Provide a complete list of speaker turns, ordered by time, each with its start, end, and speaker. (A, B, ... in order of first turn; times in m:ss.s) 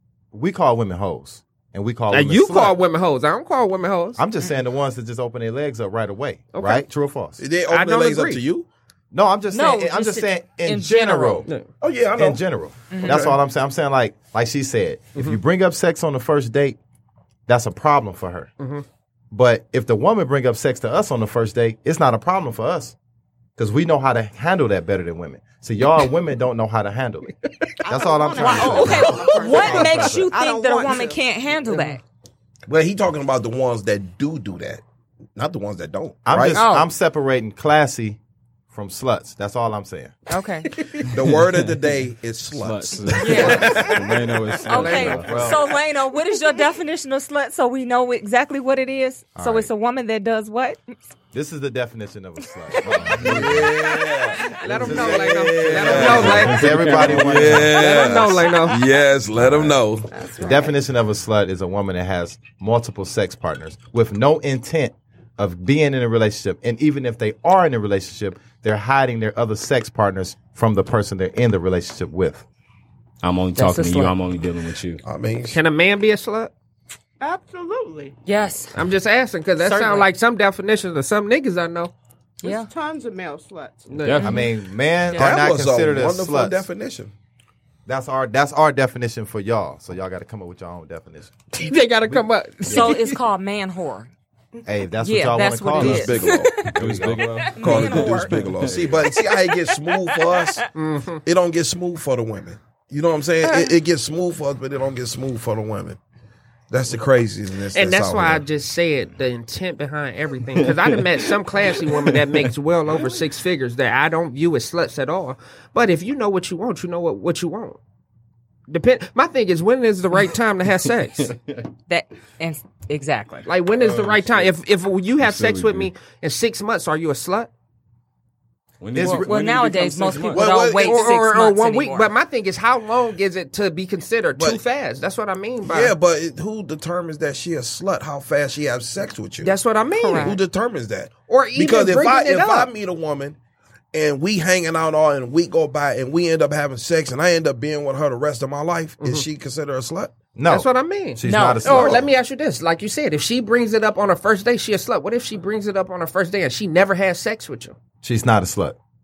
0:00.3-0:02.8 A
0:02.1-0:04.2 B
0:04.2-0:07.4 A
0:06.5-0:06.9 B
0:07.4-0:08.7 C
0:07.7-0:08.4 B
0:09.1-0:11.5 A
0:09.5-0:11.5 D
0:11.8-0:12.4 C
0:12.2-0:16.8 A
0:12.9-0:13.2 D
0:17.5-0:18.5 A
0:18.6-0:18.8 B
0:19.3-0:23.0 A
0:23.6-0:27.3 A
0:27.8-0:31.2 E
0:27.8-0:30.3 A
0:28.4-0:32.0 D
0:32.7-0:34.8 C
0:35.4-0:36.7 C
0:36.3-0:38.2 A
0:36.6-0:36.9 D
0:38.7-0:40.2 A
0:40.3-0:40.7 D
0:40.7-0:41.1 B
0:41.1-0:44.2 C
0:41.2-0:41.8 F
0:42.5-0:45.5 F
0:43.2-0:43.9 D
0:43.4-0:44.0 B
0:44.6-0:45.5 B
0:44.7-0:50.8 D
0:45.2-0:45.6 A
0:49.4-0:49.7 A
0:51.3-0:53.8 A
0:52.7-0:53.2 D
0:53.2-1:00.1 C
0:54.6-0:57.2 B
0:54.7-0:57.8 A
0:55.9-0:57.7 F
0:57.7-0:58.8 B
0:57.9-0:58.7 D
0:59.4-0:59.8 A
1:00.1-1:00.8 E
1:00.4-1:12.5 A
1:13.2-1:15.0 F
1:13.6-1:14.2 D
1:15.0-1:15.6 C
1:15.5-1:16.5 B
1:17.2-1:18.1 E
1:18.2-1:18.8 D
1:18.8-1:21.9 B
1:19.6-1:20.1 D
1:22.4-1:22.7 D
1:22.4-1:23.9 E
1:23.9-1:24.3 B
1:23.9-1:24.4 F
1:24.2-1:24.5 D
1:24.2-1:26.7 A
1:25.1-1:27.1 C
1:27.9-1:31.3 A
1:31.5-1:33.2 B
1:32.7-1:34.1 D
1:34.6-1:37.3 A
1:35.0-1:36.8 D
1:35.8-1:36.7 C
1:36.6-1:39.1 F
1:37.4-1:38.5 D
1:37.6-1:40.7 C
1:39.1-1:40.7 D
1:40.7-1:41.2 B
1:41.2-1:46.0 C
1:46.7-1:48.4 C
1:47.7-1:57.8 B
1:50.6-1:51.3 F
1:51.9-1:52.5 F
1:58.7-2:01.3 B
2:01.2-2:01.7 F
2:01.9-2:03.5 D
2:03.5-2:07.5 B
2:03.8-2:04.5 C
2:05.2-2:05.9 F
2:08.8-2:10.5 F
2:09.0-2:09.3 A
2:09.0-2:12.1 D
2:10.2-2:11.0 C
2:10.8-2:16.0 B
2:15.6-2:23.4 C
2:19.4-2:20.4 B
2:20.0-2:20.4 D
2:21.3-2:22.7 B
2:23.9-2:30.2 C
2:30.4-2:32.1 A
2:30.5-2:37.8 B
2:31.2-2:31.9 D
2:38.0-2:38.8 A